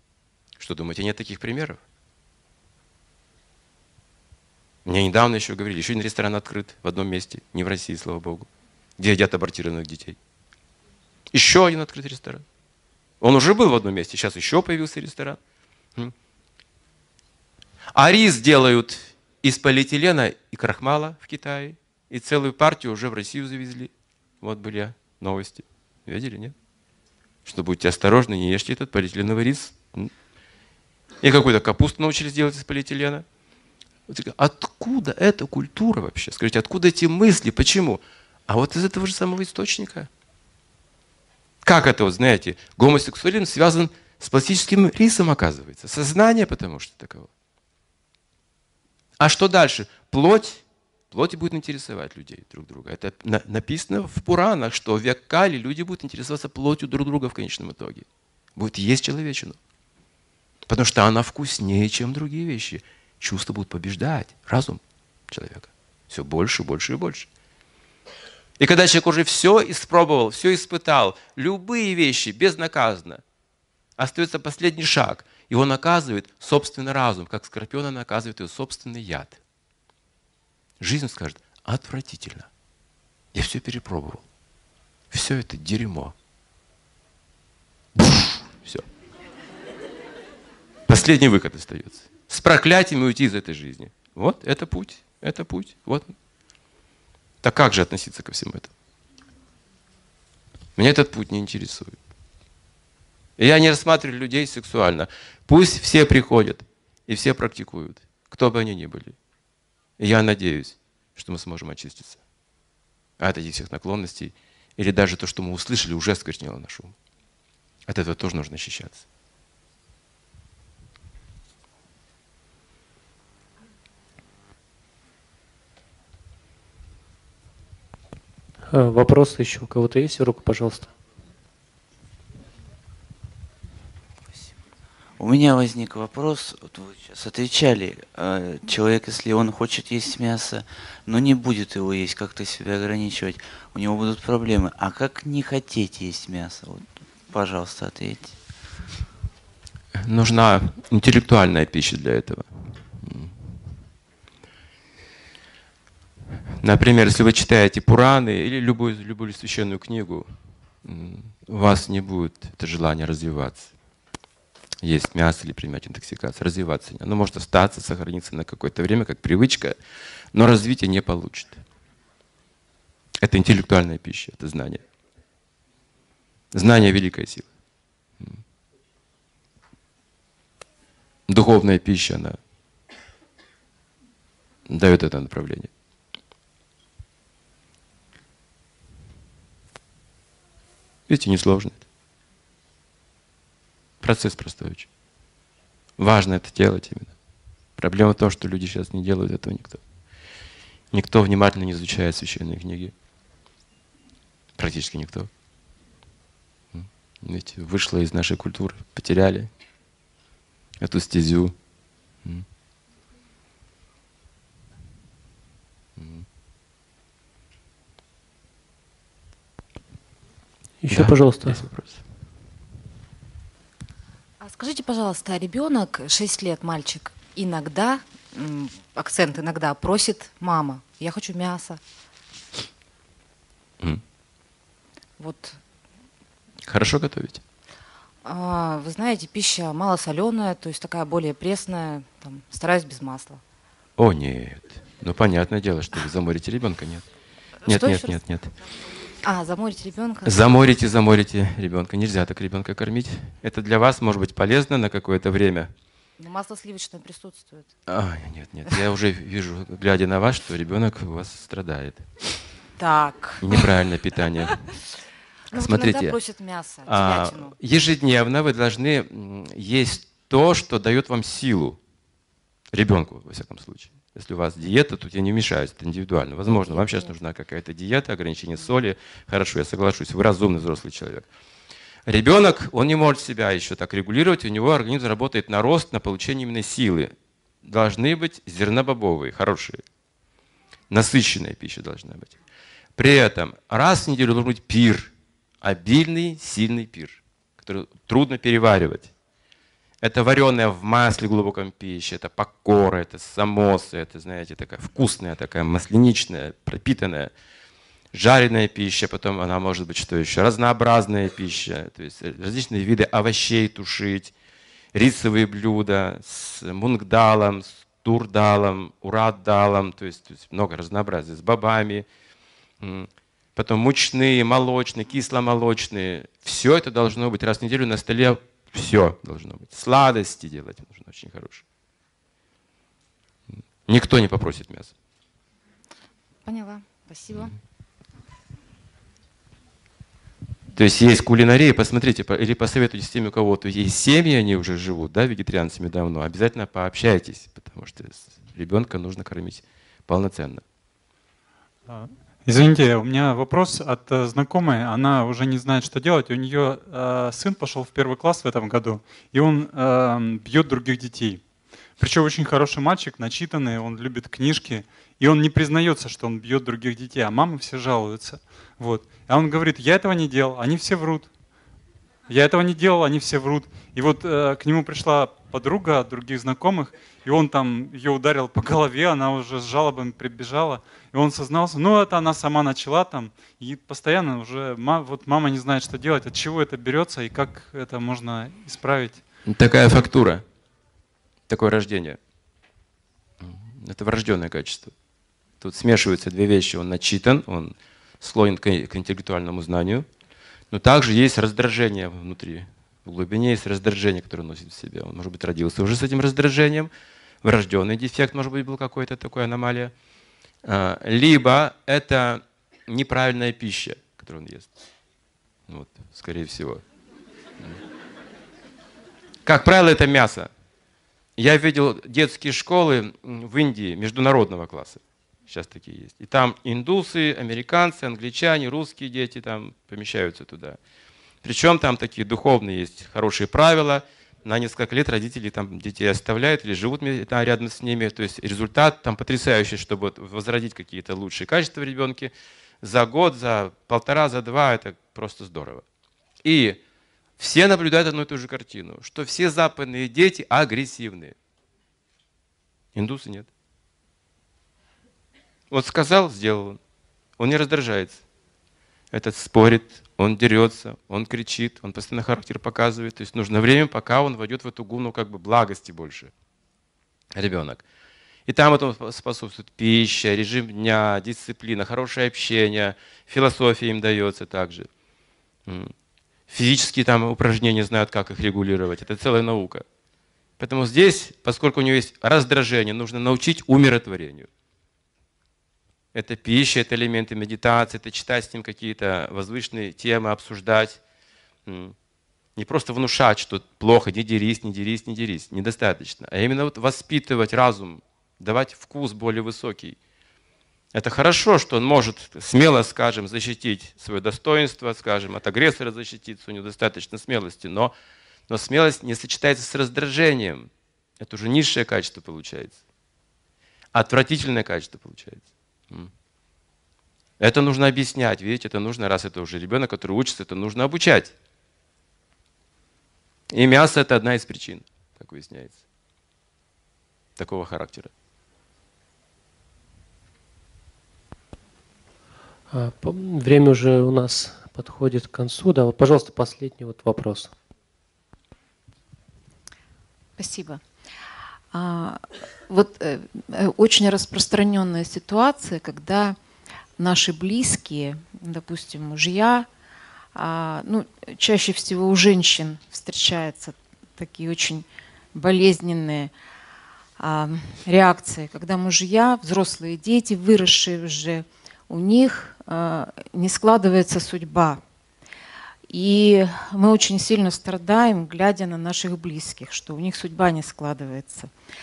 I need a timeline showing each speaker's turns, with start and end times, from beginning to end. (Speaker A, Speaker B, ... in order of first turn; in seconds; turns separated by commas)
Speaker A: 0.6-1.8, Speaker A: 4.9-10.2, Speaker A: 11.3-12.4, Speaker A: 13.2-15.4, Speaker A: 17.9-26.6, Speaker A: 27.4-30.1, Speaker A: 31.2-33.2, Speaker A: 34.1-40.1, Speaker A: 41.6-47.3, Speaker A: 49.2-59.6, Speaker A: 60.7-67.3, Speaker A: 68.6-73.2, Speaker A: 74.0-79.4, Speaker A: 80.8-82.5, Speaker A: 83.3-84.2, Speaker A: 85.1-86.2, Speaker A: 88.0-88.9, Speaker A: 90.9-96.1, Speaker A: 97.4-98.7, Speaker A: 100.8-102.0, Speaker A: 103.4-109.2, Speaker A: 110.0-112.2, Speaker A: 113.2-117.0, Speaker A: 117.9-119.0, Speaker B: 128.7-130.9, Speaker C: 135.2-148.4, Speaker A: 150.0-153.3, Speaker A: 156.6-160.3, Speaker A: 160.8-163.7, Speaker A: 164.8-169.8, Speaker A: 170.3-171.6, Speaker A: 173.2-174.8, Speaker A: 176.5-177.5, Speaker A: 181.3-182.4, Speaker A: 184.7-185.7, Speaker A: 191.1-191.8, Speaker A: 194.0-194.9, Speaker A: 196.0-197.1, Speaker A: 197.8-199.8, Speaker A: 200.9-202.9, Speaker A: 204.6-205.3, Speaker A: 206.7-209.5, Speaker A: 210.8-211.6, Speaker A: 216.0-216.2, Speaker B: 220.8-221.6, Speaker A: 220.9-222.0, Speaker D: 224.4-231.8, Speaker D: 235.2-235.6, Speaker A: 236.7-237.4, Speaker D: 238.2-243.4, Speaker A: 244.0-247.1, Speaker D: 247.7-248.2, Speaker A: 247.7-248.5, Speaker D: 249.2-250.4, Speaker A: 250.2-255.7, Speaker D: 256.2-257.7, Speaker A: 257.9-262.1, Speaker D: 262.8-263.7, Speaker A: 263.4-264.6, Speaker D: 265.5-267.6, Speaker A: 265.5-266.2, Speaker A: 266.9-271.8, Speaker A: 272.7-281.3, Speaker D: 276.6-277.1, Speaker A: 282.1-287.1, Speaker A: 287.6-289.8, Speaker A: 290.9-292.4, Speaker A: 293.0-299.1, Speaker A: 300.0-307.3, Speaker A: 308.1-314.3, Speaker A: 314.9-322.1, Speaker A: 322.8-331.6, Speaker A: 333.9-334.9, Speaker D: 336.4-337.6, Speaker A: 340.8-350.6, Speaker E: 351.9-361.4, Speaker E: 362.0-371.3, Speaker E: 372.3-389.2, Speaker A: 389.5-390.4, Speaker A: 391.5-392.2, Speaker A: 393.4-394.9, Speaker A: 395.6-400.1, Speaker A: 400.7-406.9, Speaker A: 407.4-409.9, Speaker A: 410.6-414.7, Speaker A: 415.7-416.8, Speaker A: 419.4-420.5, Speaker A: 421.4-430.8, Speaker A: 431.4-445.8, Speaker A: 446.4-446.8, Speaker A: 447.4-451.4, Speaker A: 452.9-453.5, Speaker A: 455.7-456.8, Speaker A: 457.4-458.2, Speaker A: 459.1-466.3, Speaker A: 467.4-467.8, Speaker A: 468.5-474.9, Speaker A: 475.7-475.9, Speaker A: 476.5-479.9, Speaker A: 480.6-484.5, Speaker A: 486.1-491.0, Speaker A: 491.7-491.9, Speaker A: 492.6-500.0, Speaker A: 500.9-507.9, Speaker A: 508.5-510.7, Speaker A: 511.2-512.8, Speaker A: 513.9-516.1, Speaker A: 517.4-521.3, Speaker A: 523.5-525.8, Speaker A: 527.4-528.1, Speaker B: 532.7-537.5, Speaker F: 540.4-540.8, Speaker F: 541.7-546.4, Speaker F: 547.0-549.7, Speaker F: 550.4-556.3, Speaker F: 557.2-564.8, Speaker F: 565.9-571.5